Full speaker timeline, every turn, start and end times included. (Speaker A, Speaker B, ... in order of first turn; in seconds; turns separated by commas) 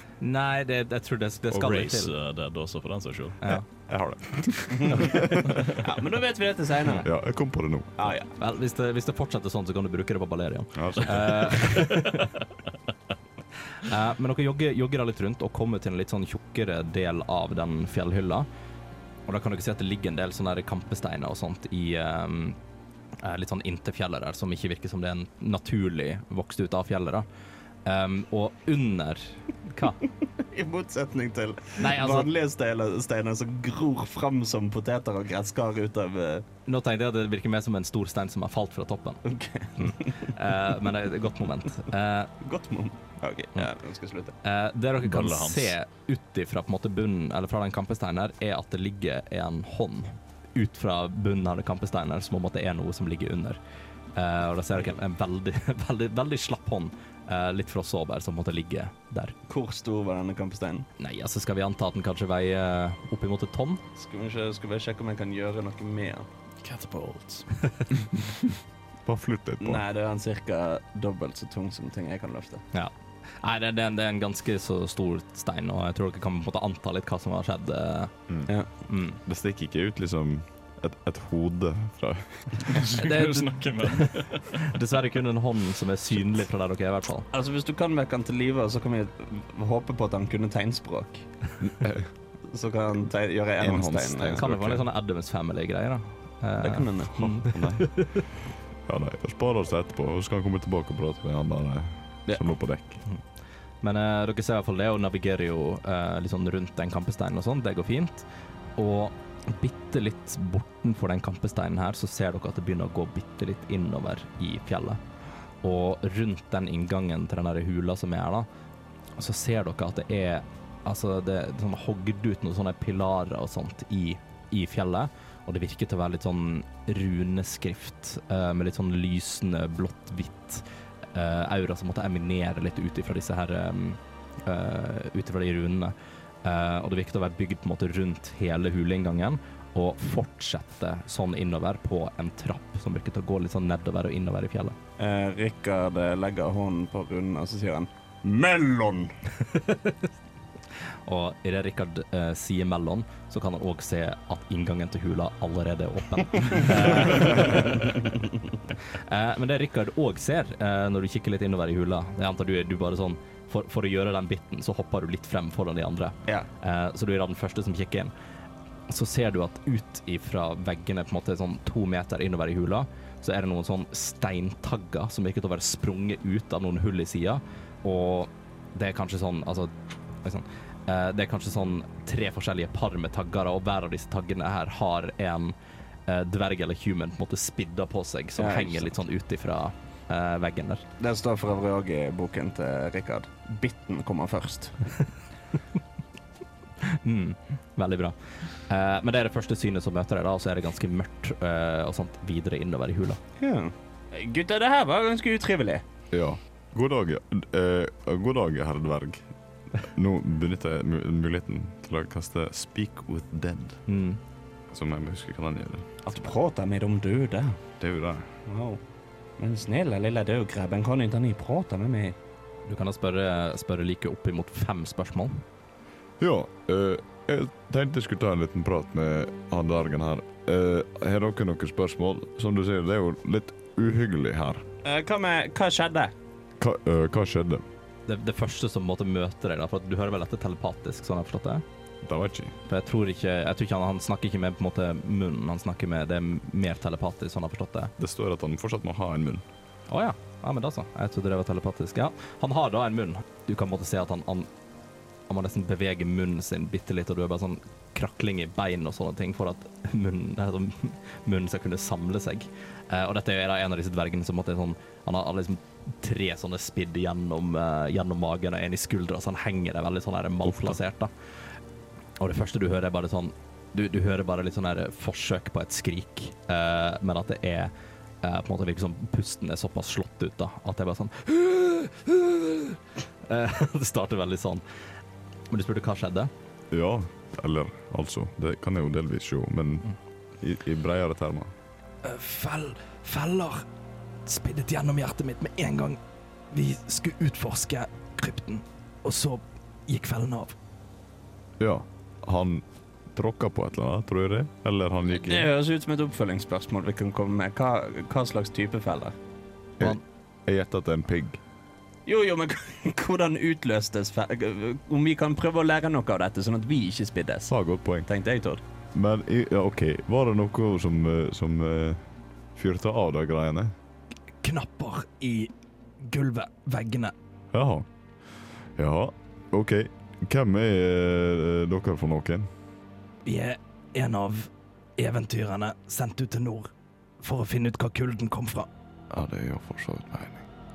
Speaker A: 0.2-2.1, Speaker B: 1.5-3.4, Speaker C: 3.9-5.5, Speaker D: 4.7-7.1, Speaker C: 7.0-8.1, Speaker D: 8.0-8.3, Speaker A: 8.4-12.4, Speaker C: 10.8-11.6, Speaker A: 13.8-18.5, Speaker A: 19.3-22.6, Speaker A: 23.2-27.2, Speaker A: 27.9-30.0, Speaker D: 30.4-36.4, Speaker A: 31.8-32.3, Speaker A: 36.6-39.2, Speaker D: 39.2-40.3, Speaker A: 39.8-42.3, Speaker D: 42.4-44.4, Speaker A: 44.4-53.6, Speaker B: 45.0-45.7, Speaker A: 54.1-59.4, Speaker D: 59.5-60.9, Speaker A: 61.0-63.8, Speaker D: 64.0-66.3, Speaker B: 66.6-67.5, Speaker C: 69.0-69.8, Speaker D: 69.6-72.6, Speaker A: 72.7-78.1, Speaker A: 78.9-79.2, Speaker C: 79.2-82.8, Speaker B: 82.6-84.7, Speaker A: 82.8-87.3, Speaker D: 87.3-91.2, Speaker C: 91.6-92.1, Speaker D: 92.5-94.4, Speaker C: 93.6-94.9, Speaker A: 94.2-98.2, Speaker D: 96.6-97.2, Speaker C: 97.2-103.0, Speaker A: 103.8-115.0, Speaker A: 115.6-118.5, Speaker A: 119.2-144.8, Speaker D: 145.0-149.1, Speaker A: 151.1-158.1, Speaker A: 158.9-168.1, Speaker A: 168.9-185.5, Speaker A: 186.1-190.8, Speaker D: 188.4-188.8, Speaker D: 191.0-194.8, Speaker A: 196.8-203.2, Speaker D: 203.4-205.8, Speaker C: 206.1-209.2, Speaker C: 209.8-213.8, Speaker A: 213.9-214.2, Speaker C: 214.7-215.9, Speaker D: 216.0-217.6, Speaker C: 217.8-218.3, Speaker D: 218.5-218.8, Speaker D: 219.4-222.2, Speaker A: 222.7-225.4, Speaker C: 226.2-234.6, Speaker D: 234.8-236.1, Speaker C: 236.6-237.6, Speaker A: 238.1-241.6, Speaker C: 242.0-242.5, Speaker A: 242.7-247.9, Speaker C: 248.0-249.4, Speaker A: 249.9-254.5, Speaker A: 255.3-271.1, Speaker C: 270.5-270.7, Speaker A: 272.2-284.6, Speaker A: 285.5-286.3, Speaker C: 286.7-291.5, Speaker A: 292.0-293.6, Speaker A: 294.2-296.0, Speaker A: 296.5-300.6, Speaker C: 301.6-305.5, Speaker D: 305.1-309.1, Speaker C: 309.8-311.4, Speaker D: 312.1-317.5, Speaker C: 317.5-318.1, Speaker D: 318.0-318.6, Speaker C: 318.9-322.0, Speaker C: 322.5-323.7, Speaker A: 324.4-327.1, Speaker C: 327.5-332.5, Speaker A: 333.2-338.7, Speaker C: 339.1-340.4